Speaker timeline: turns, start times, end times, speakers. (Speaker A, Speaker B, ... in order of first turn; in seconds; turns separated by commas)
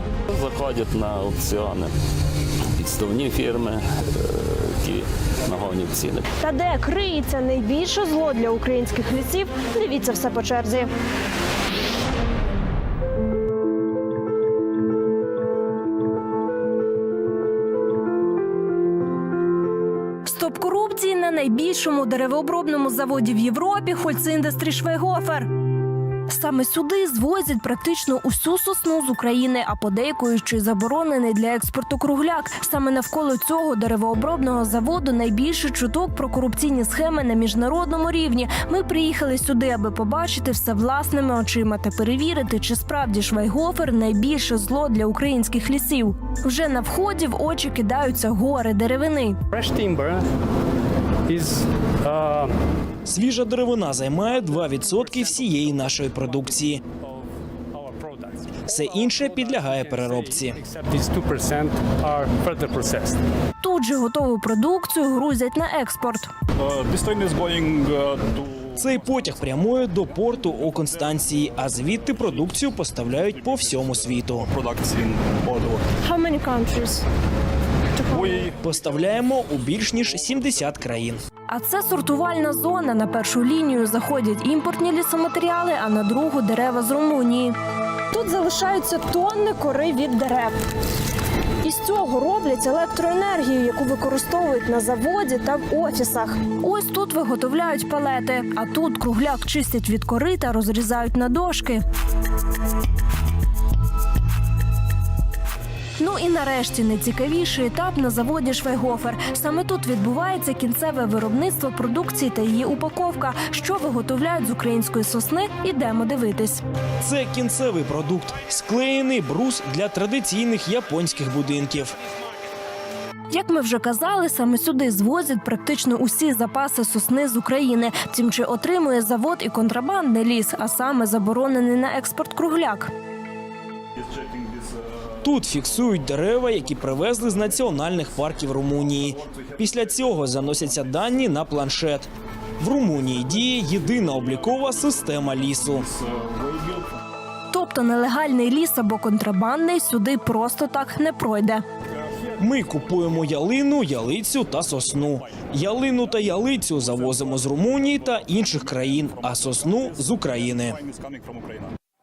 Speaker A: 0.3-1.9, Speaker A: 2.8-6.2, Speaker B: 6.4-10.9, Speaker B: 20.2-25.5, Speaker B: 26.3-49.4, Speaker C: 49.5-50.2, Speaker C: 51.3-52.5, Speaker D: 53.0-56.8, Speaker C: 54.4-63.2, Speaker D: 58.7-60.6, Speaker B: 63.6-66.3, Speaker E: 66.6-68.8, Speaker D: 68.8-74.5, Speaker E: 73.2-75.8, Speaker B: 76.0-77.0, Speaker B: 78.0-78.5, Speaker E: 78.1-78.7, Speaker D: 78.6-81.2, Speaker B: 81.5-87.5, Speaker B: 88.1-90.5, Speaker B: 91.6-101.8, Speaker B: 106.0-116.6, Speaker D: 117.0-121.9, Speaker B: 123.3-132.9, Speaker E: 134.2-134.6, Speaker D: 135.2-145.8, Speaker E: 139.7-140.9, Speaker E: 145.7-146.8, Speaker B: 147.5-151.6, Speaker D: 152.4-160.8, Speaker E: 156.8-161.7